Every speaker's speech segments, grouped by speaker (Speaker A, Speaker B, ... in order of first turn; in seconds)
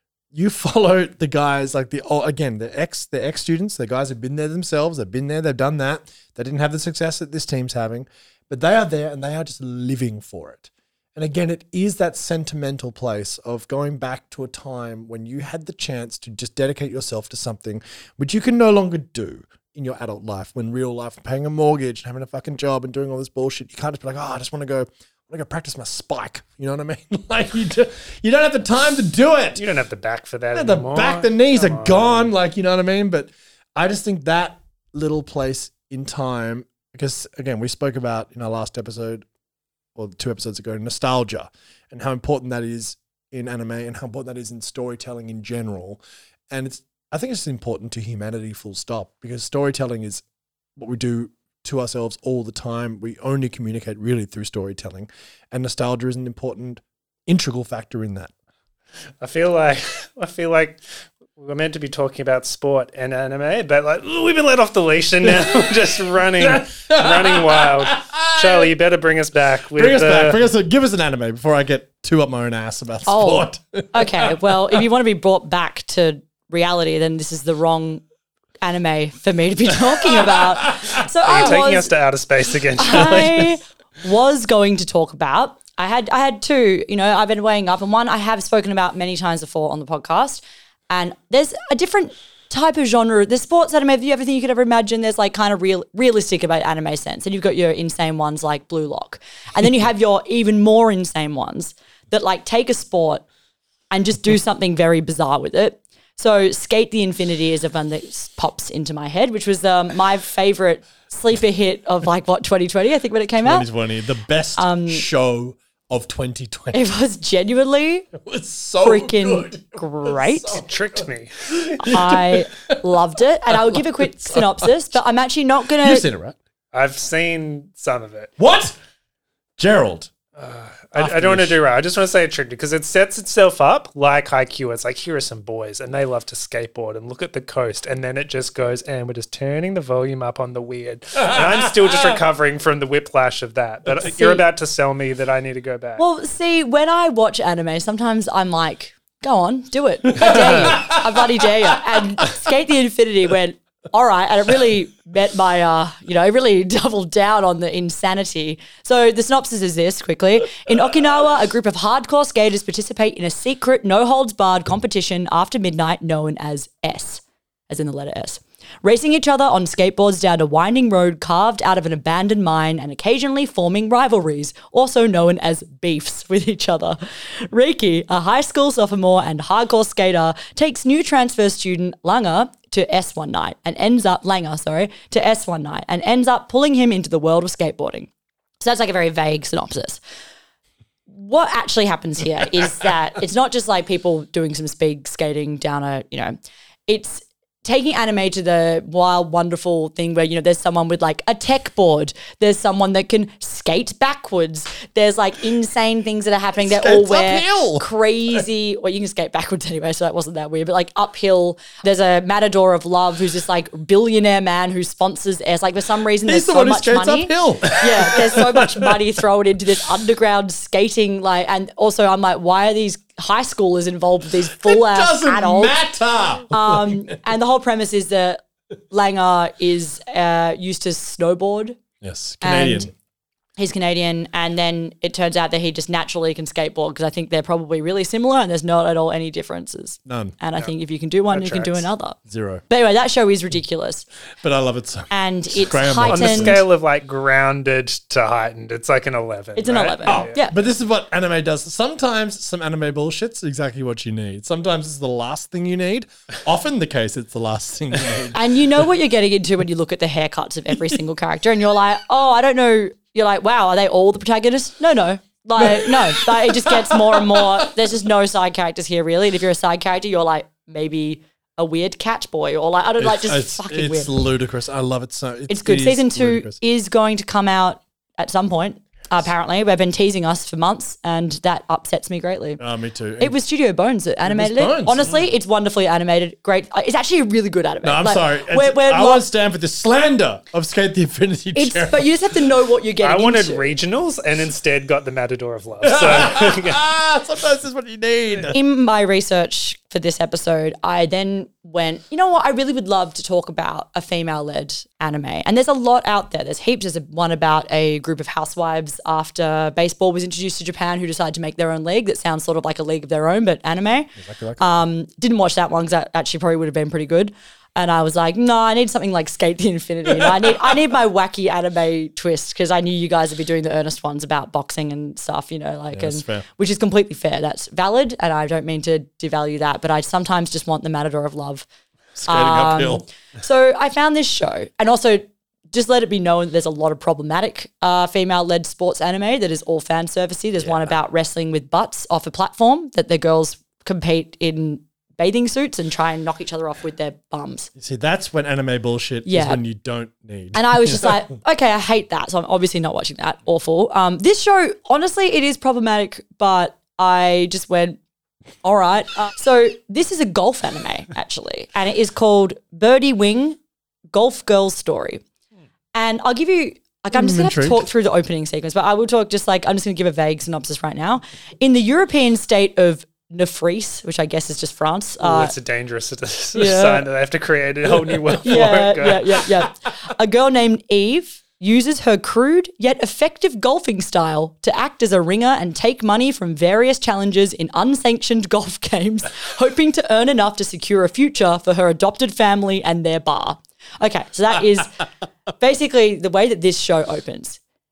Speaker A: 0.3-29.6, 30.5-39.2, 39.9-50.2, 50.8-58.3, 65.3-68.7, 69.7-74.8, 80.2-80.9, 113.4-116.8, 118.1-122.9, 123.5-124.7, 125.8-126.4, 128.4-128.7, 129.6-130.1, 130.9-131.6, 141.2-142.2, 150.1-151.5, 206.6-207.9, 216.2-219.0, 224.5-227.2, 232.0-232.9, 240.1-240.3, 242.3-242.6, 244.4-246.6, 250.1-258.4, 265.6-267.7, 273.0-276.6, 282.6-283.4, 284.2-285.1, 287.8-292.1, 295.8-298.6, 314.2-314.7, 320.2-320.7, 325.9-326.4, 332.1-333.0, 340.6-340.9, 347.8-351.2, 367.1-367.8
Speaker B: 29.6-32.3, 59.2-70.4, 81.2-83.5, 120.5-121.7, 126.7-128.3, 130.4-146.0, 241.3-241.9, 246.1-250.3, 293.0-296.8, 375.2-379.5
Speaker C: 73.0-78.0, 78.6-81.9, 82.8-103.2, 103.9-113.7, 114.5-115.0, 116.7-118.1, 118.8-120.6, 121.8-126.0, 144.0-144.4, 146.0-190.0, 191.1-196.3, 196.9-225.8, 226.5-231.8, 232.4-232.9, 233.6-242.2, 242.7-244.0, 245.1-246.6, 249.6-250.5, 258.3-274.1, 275.5-282.6, 283.2-289.2, 291.5-293.6, 298.5-331.6, 332.3-347.7, 349.2-349.6, 350.5-358.0, 358.6-363.6, 364.1-365.2, 365.9-375.5, 376.5-377.0, 378.4-395.0, 395.5-397.6